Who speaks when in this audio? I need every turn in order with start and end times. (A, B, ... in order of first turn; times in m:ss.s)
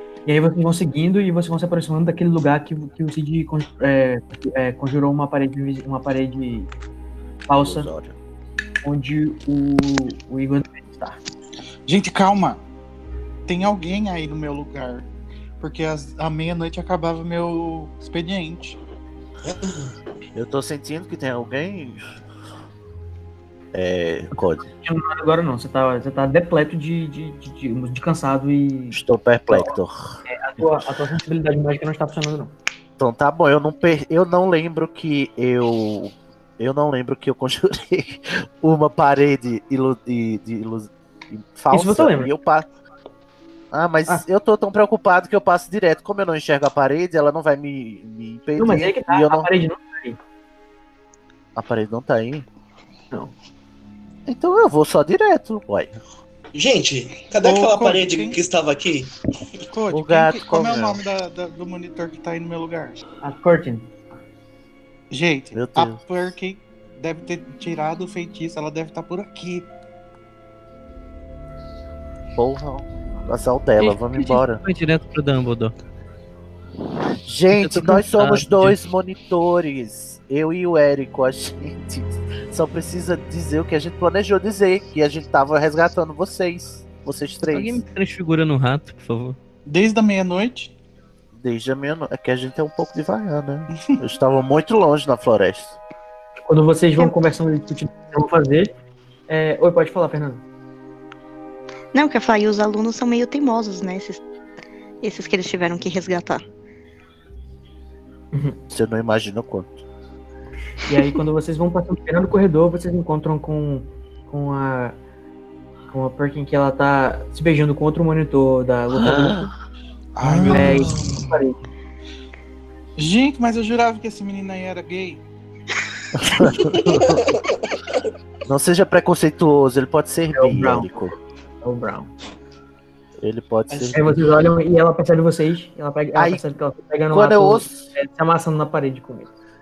0:00.2-0:06.7 A
0:07.5-0:07.9 A
0:07.6-0:08.1 B
0:08.8-0:11.2 A
0:11.8-0:12.6 C
0:13.5-0:15.1 C
0:15.6-0:18.8 C
0:19.4-0:19.9 D
0:20.3-0:22.0 B
0:23.7-0:24.7 B
0:24.8-0:32.5 A
0:28.9-0:30.6 B
0:33.0-0:42.6 B
0:41.7-0:42.3 A
0:43.7-0:49.5 B
0:48.6-0:50.2 A
0:51.5-0:52.4 B
0:54.2-0:56.0 B
0:56.5-0:59.1 D
0:57.4-0:58.4 C
0:59.7-1:03.0 C
0:59.9-1:01.0 B
1:03.2-1:03.9 A
1:05.1-1:09.7 C
1:05.5-1:06.0 B
1:12.4-1:14.6 B
1:13.8-1:15.7 E
1:17.2-1:27.8 B
1:17.5-1:18.8 E
1:27.5-1:29.4 E
1:29.6-1:30.7 C
1:31.3-1:35.8 B
1:36.5-1:38.7 A
1:39.3-1:40.4 A
1:41.9-1:44.2 F
1:45.0-1:46.4 F
1:48.3-1:48.6 A
1:48.7-1:49.8 B
1:50.8-1:55.0 A
1:55.9-1:59.5 A
1:58.9-1:59.5 B
2:00.1-2:01.0 C
2:00.2-2:01.6 A
2:03.0-2:05.2 C
2:06.1-2:07.4 B
2:06.6-2:07.4 D
2:08.4-2:11.1 B
2:10.3-2:12.1 A
2:13.2-2:14.2 B
2:13.7-2:14.0 D
2:13.9-2:19.3 A
2:16.1-2:16.4 B
2:17.1-2:17.7 B